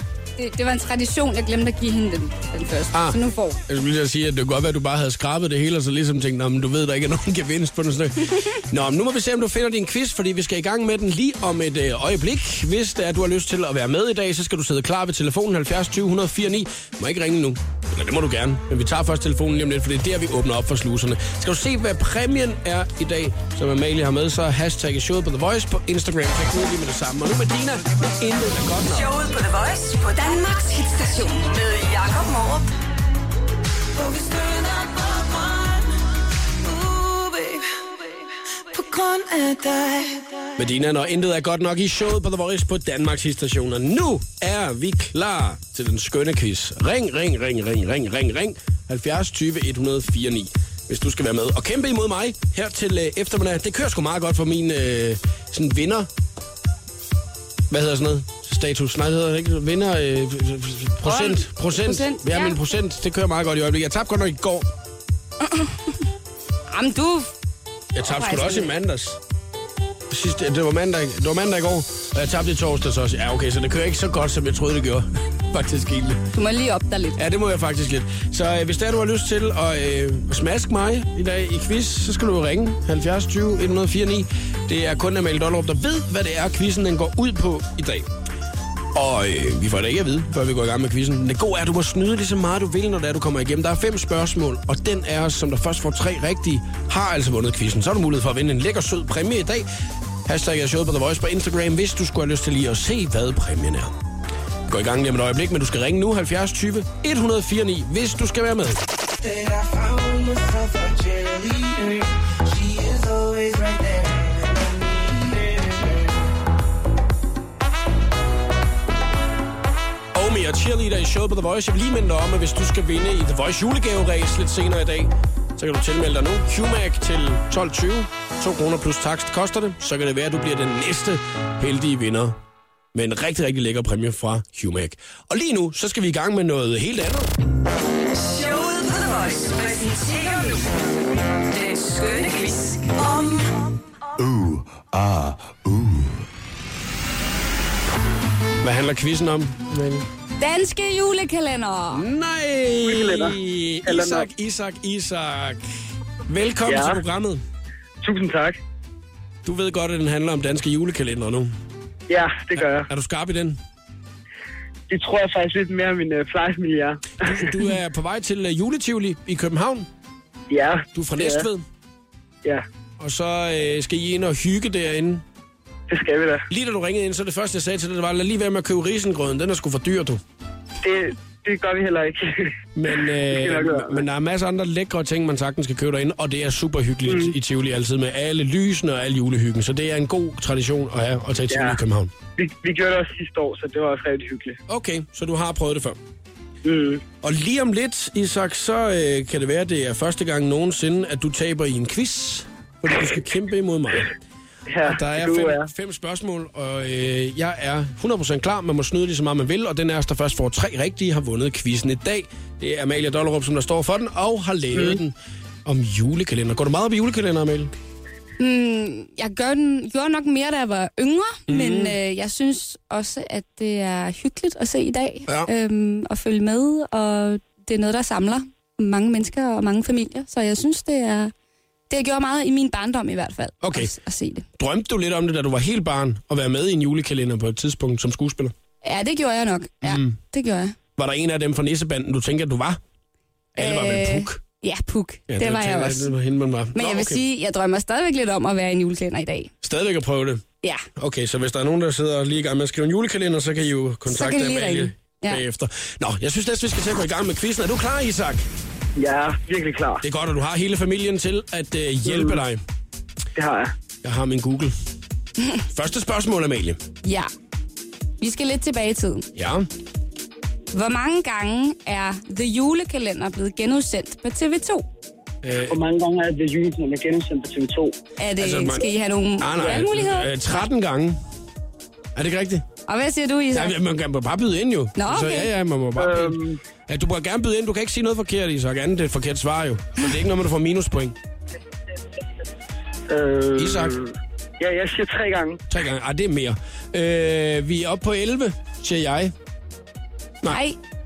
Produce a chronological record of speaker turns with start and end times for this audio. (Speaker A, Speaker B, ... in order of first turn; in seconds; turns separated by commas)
Speaker A: 0.4-3.6, Speaker B: 2.9-29.1, Speaker C: 28.8-32.7, Speaker D: 34.0-35.9, Speaker C: 36.7-37.6, Speaker D: 38.7-40.4, Speaker B: 40.6-56.1, Speaker B: 57.7-64.7, Speaker A: 61.0-62.6, Speaker A: 65.4-65.9, Speaker A: 66.7-67.3, Speaker B: 67.9-69.2, Speaker A: 68.0-68.7, Speaker B: 70.1-76.2, Speaker A: 76.3-77.2, Speaker B: 77.2-88.1, Speaker B: 88.9-99.7, Speaker B: 100.2-103.9, Speaker B: 104.7-108.8, Speaker D: 109.2-116.1, Speaker B: 120.1-132.4, Speaker B: 132.9-137.3, Speaker C: 138.1-143.8, Speaker B: 148.6-150.1, Speaker A: 150.4-152.1, Speaker B: 151.9-155.6, Speaker E: 152.8-154.3, Speaker B: 156.3-157.4, Speaker E: 156.7-157.0, Speaker E: 158.0-158.6, Speaker B: 159.4-161.5, Speaker E: 162.1-162.9, Speaker B: 162.6-163.6, Speaker E: 164.9-167.5, Speaker B: 167.2-169.9, Speaker E: 170.5-171.5, Speaker B: 170.9-171.7, Speaker B: 173.0-175.2, Speaker E: 175.9-176.4, Speaker B: 176.5-180.2, Speaker E: 180.8-182.5, Speaker B: 182.7-192.1, Speaker E: 183.3-184.0, Speaker E: 187.1-187.3, Speaker E: 191.5-191.8, Speaker E: 192.4-194.6, Speaker B: 194.7-196.0, Speaker E: 196.6-197.0, Speaker B: 197.2-204.1, Speaker E: 204.7-205.7, Speaker B: 204.8-217.7, Speaker E: 214.7-215.0, Speaker A: 218.4-231.3, Speaker B: 221.5-221.9, Speaker A: 231.9-234.4, Speaker B: 233.6-233.9, Speaker B: 234.6-238.5, Speaker A: 238.8-240.8, Speaker B: 239.8-240.2, Speaker B: 240.9-242.8, Speaker B: 243.5-244.4, Speaker A: 243.6-246.1, Speaker B: 245.3-247.2, Speaker A: 246.7-249.5, Speaker B: 249.6-250.4, Speaker B: 250.9-258.5, Speaker A: 254.1-255.4, Speaker E: 258.9-260.0, Speaker B: 260.0-262.6, Speaker E: 262.1-262.4, Speaker E: 263.4-263.7, Speaker B: 264.0-264.7, Speaker B: 265.7-266.8, Speaker A: 267.0-267.3, Speaker A: 268.2-269.3, Speaker B: 269.3-269.7, Speaker A: 270.7-274.8, Speaker B: 275.4-275.8, Speaker E: 275.6-278.0, Speaker A: 278.2-280.5, Speaker B: 278.4-281.2, Speaker B: 282.1-282.6, Speaker A: 282.9-283.8, Speaker B: 283.5-291.1, Speaker A: 284.9-285.5, Speaker E: 286.0-286.6, Speaker E: 293.1-295.6, Speaker B: 293.6-294.0, Speaker B: 295.7-299.3, Speaker A: 300.5-300.8